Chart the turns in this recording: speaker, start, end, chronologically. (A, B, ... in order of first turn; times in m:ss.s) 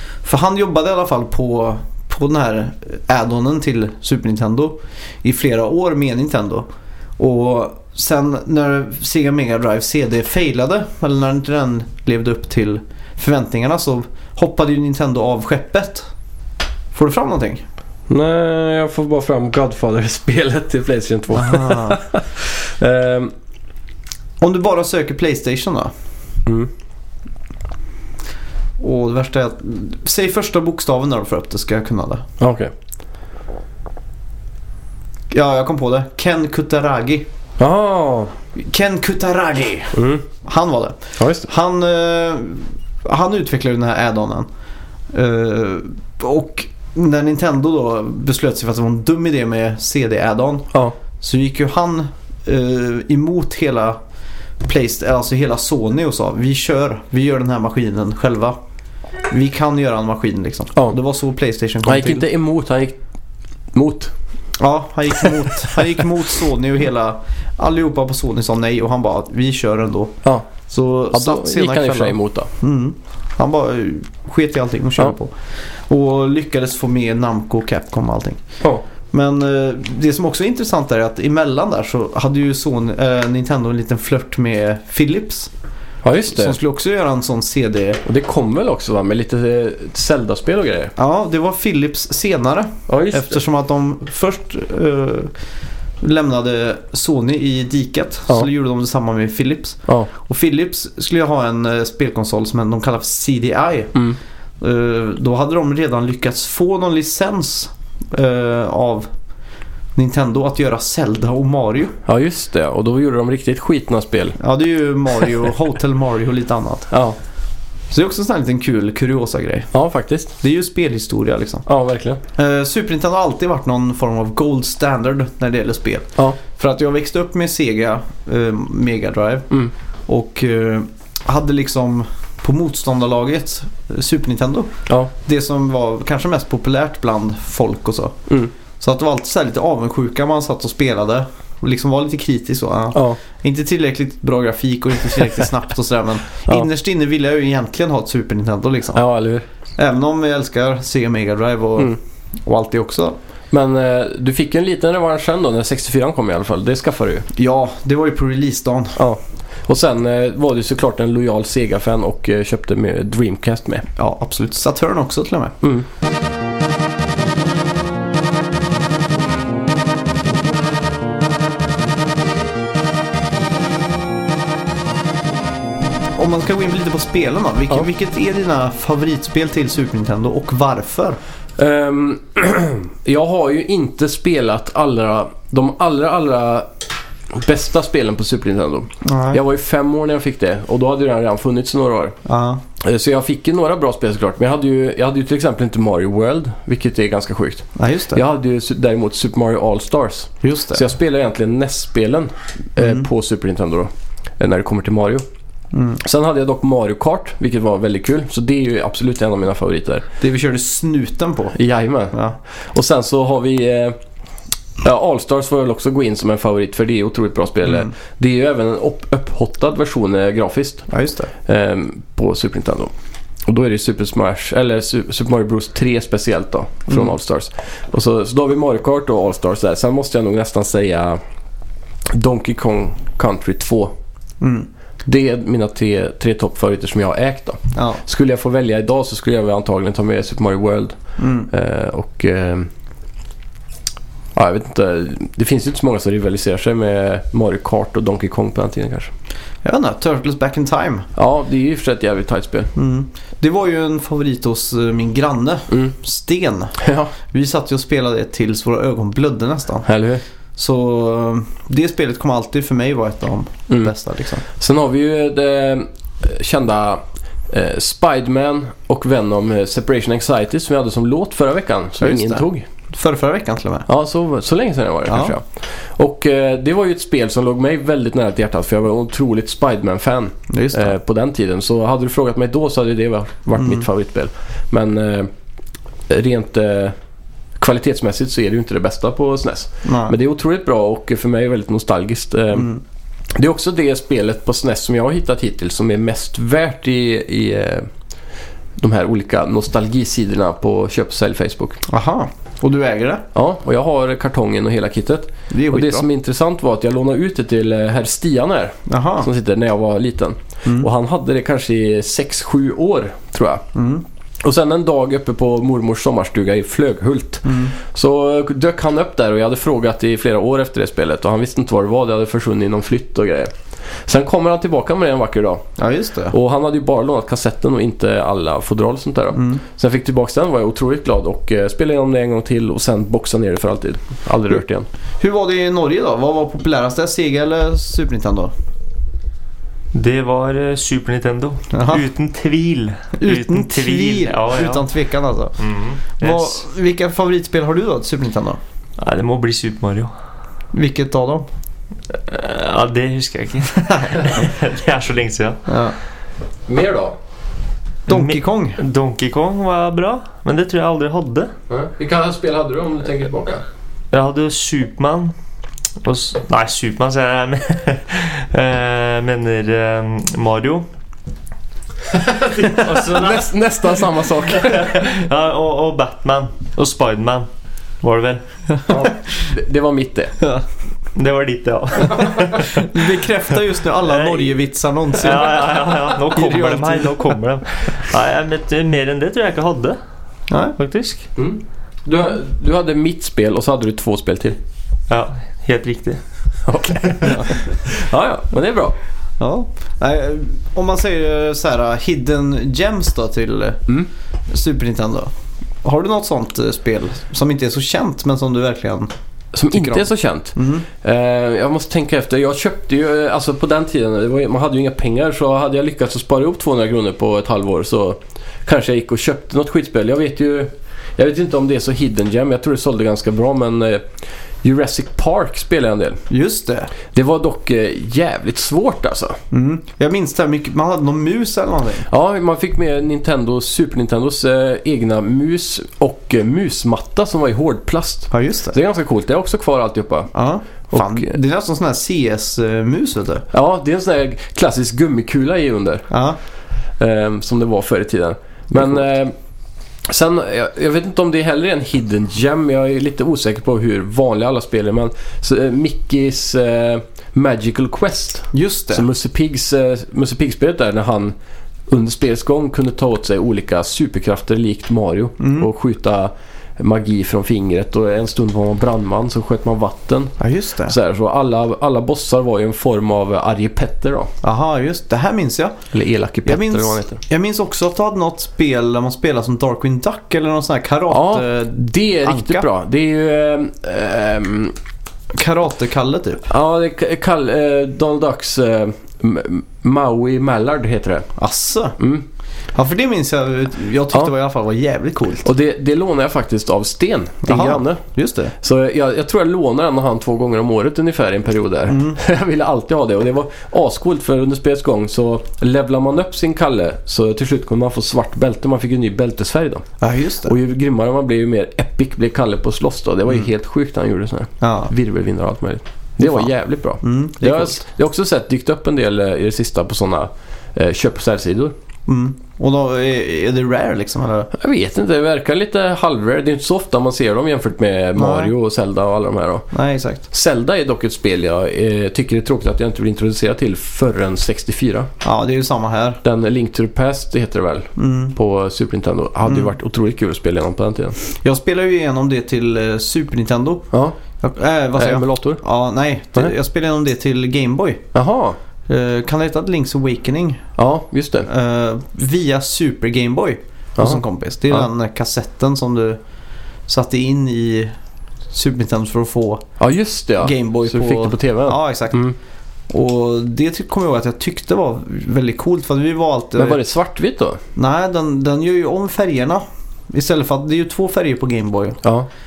0:00.2-0:06.7 A
0:07.2-0:16.1 A
0:16.9-0:17.6 A
0:18.1-0:23.3 B
0:21.3-0:22.0 A
0:24.4-0:25.9 A
0:28.8-0:32.2 A
0:32.4-0:32.7 B
0:35.3-0:37.3 A
0:37.6-0:38.3 B
0:38.5-0:44.5 A
0:39.9-0:40.2 B
0:41.2-0:41.5 B
0:45.1-0:54.0 A
0:54.6-0:58.6 A
0:59.3-1:02.2 A
1:01.8-1:03.0 B
1:03.7-1:04.1 B
1:04.6-1:18.4 A
1:11.1-1:12.5 B
1:19.1-1:25.5 A
1:26.0-1:26.6 B
1:26.3-1:28.0 A
1:28.0-1:30.9 B
1:31.0-1:35.3 A
1:32.9-1:33.4 B
1:36.0-1:44.0 A
1:44.6-1:49.1 A
1:50.0-1:52.0 A
1:52.0-1:54.4 B
1:54.4-1:56.9 A
1:56.9-1:57.2 B
1:57.9-1:59.7 A
1:59.7-2:00.3 B
2:00.4-2:01.6 A
2:01.6-2:02.2 B
2:02.3-2:09.5 A
2:10.1-2:18.2 A
2:18.8-2:29.0 A
2:22.9-2:23.2 B
2:28.9-2:29.4 B
2:29.8-2:33.2 A
2:33.5-2:37.3 B
2:37.4-2:39.0 A
2:39.0-2:43.8 B
2:44.0-2:45.6 A
2:56.1-3:01.2 A
3:01.6-3:06.7 B
3:07.3-3:12.2 B
3:09.0-3:09.4 A
3:12.2-3:12.6 A
3:12.8-3:25.2 B
3:17.8-3:18.2 A
3:20.4-3:20.8 A
3:22.8-3:23.1 A
3:25.7-3:26.0 A
3:26.0-3:30.0 B
3:30.2-3:31.5 A
3:31.5-3:34.0 B
3:32.1-3:32.4 A
3:34.8-3:40.9 B
3:37.6-3:37.9 A
3:40.9-3:41.3 A
3:41.4-3:42.9 B
3:43.5-3:51.2 B
3:46.9-3:47.1 A
3:52.1-3:53.9 B
3:54.4-3:54.7 A
3:55.0-4:01.0 B
3:57.7-3:58.0 A
4:01.2-4:01.5 A
4:01.5-4:02.7 B
4:04.3-4:09.1 B
4:09.6-4:11.1 A
4:11.2-4:12.7 B
4:12.7-4:19.9 A
4:16.8-4:17.1 B
4:19.8-4:20.2 B
4:20.6-4:24.4 A
4:24.5-4:32.6 B
4:32.0-4:33.9 A
4:33.9-4:45.3 B
4:35.1-4:35.3 A
4:40.5-4:41.0 A
4:43.6-4:43.9 A
4:46.1-4:46.9 B
4:47.6-4:52.7 B
4:49.8-4:50.1 A
4:52.5-4:52.8 A
4:53.3-4:57.9 B
4:58.8-5:01.8 B
5:01.9-5:03.2 A
5:03.3-5:13.6 B
5:05.5-5:06.1 A
5:08.9-5:09.3 A
5:13.7-5:14.0 A
5:14.4-5:23.5 B
5:17.4-5:17.7 A
5:24.0-5:25.6 B
5:25.8-5:26.3 A
5:26.3-5:34.9 B
5:29.3-5:29.6 A
5:35.2-5:38.5 A
5:39.9-5:44.8 C
5:41.7-5:42.0 A
5:43.2-5:45.6 A
5:45.6-5:46.6 C
5:46.2-5:48.6 A
5:49.0-5:50.1 C
5:50.7-5:51.4 A
5:52.1-5:55.6 C
5:55.7-5:55.9 A
5:56.6-5:57.2 B
5:58.1-5:58.8 A
5:58.1-6:01.5 C
6:01.7-6:03.6 B
6:04.1-6:05.3 C
6:06.0-6:10.9 C
6:12.1-6:15.0 B
6:12.6-6:13.5 C
6:14.5-6:17.5 C
6:18.0-6:18.9 C
6:18.9-6:20.3 B
6:21.1-6:23.1 C
6:22.1-6:27.3 A
6:24.0-6:24.6 C
6:25.1-6:30.0 C
6:30.5-6:30.8 A
6:30.8-6:31.3 C
6:31.4-6:34.6 B
6:35.1-6:36.2 C
6:36.7-6:38.9 B
6:36.9-6:37.3 C
6:37.2-6:37.5 A
6:39.4-6:43.8 A
6:44.5-6:45.3 A
6:45.8-6:49.1 A
6:49.5-7:04.0 B
6:49.7-6:50.9 A
7:04.6-7:06.2 B
7:06.3-7:06.9 A
7:07.1-7:09.4 B
7:09.5-7:12.1 A
7:12.1-7:20.3 B
7:18.3-7:18.8 A
7:20.3-7:23.4 A
7:20.9-7:21.3 B
7:23.5-7:26.1 B
7:26.1-7:26.4 A
7:27.0-7:29.3 B
7:30.0-7:41.3 B
7:38.5-7:39.1 A
7:41.9-7:50.3 B
7:45.4-7:45.7 A
7:50.4-7:51.0 A
7:50.8-7:54.3 B
7:54.4-7:55.8 A
7:55.9-7:57.2 B
7:56.4-8:02.7 A
8:01.1-8:04.8 B
8:05.3-8:06.5 A
8:06.5-8:11.3 B
8:11.4-8:12.0 A
8:12.0-8:12.2 B
8:12.7-8:15.5 A
8:15.4-8:18.0 B
8:17.4-8:18.5 A
8:18.6-8:29.9 B
8:21.9-8:22.2 A
8:30.0-8:30.5 A
8:30.4-8:41.7 B
8:34.6-8:34.9 A
8:36.2-8:36.5 A
8:37.0-8:37.8 A
8:42.1-8:44.5 A
8:44.5-8:49.7 B
8:48.2-8:48.5 A
8:49.7-8:50.2 A
8:50.3-8:55.1 B
8:55.2-8:56.2 A
8:56.2-9:01.2 B
8:58.0-8:58.3 A
8:59.4-8:59.7 A
9:01.3-9:08.0 A
9:03.9-9:04.2 B
9:04.9-9:05.6 B
9:08.1-9:08.6 B
9:08.9-9:10.7 A
9:10.8-9:11.5 B
9:11.5-9:16.2 A
9:14.0-9:14.2 B
9:16.9-9:17.9 A
9:18.5-9:19.6 A
9:19.8-9:22.3 B
9:20.4-9:22.3 A
9:22.9-9:26.8 A
9:26.6-9:27.6 B
9:27.8-9:32.0 A
9:32.0-9:32.3 B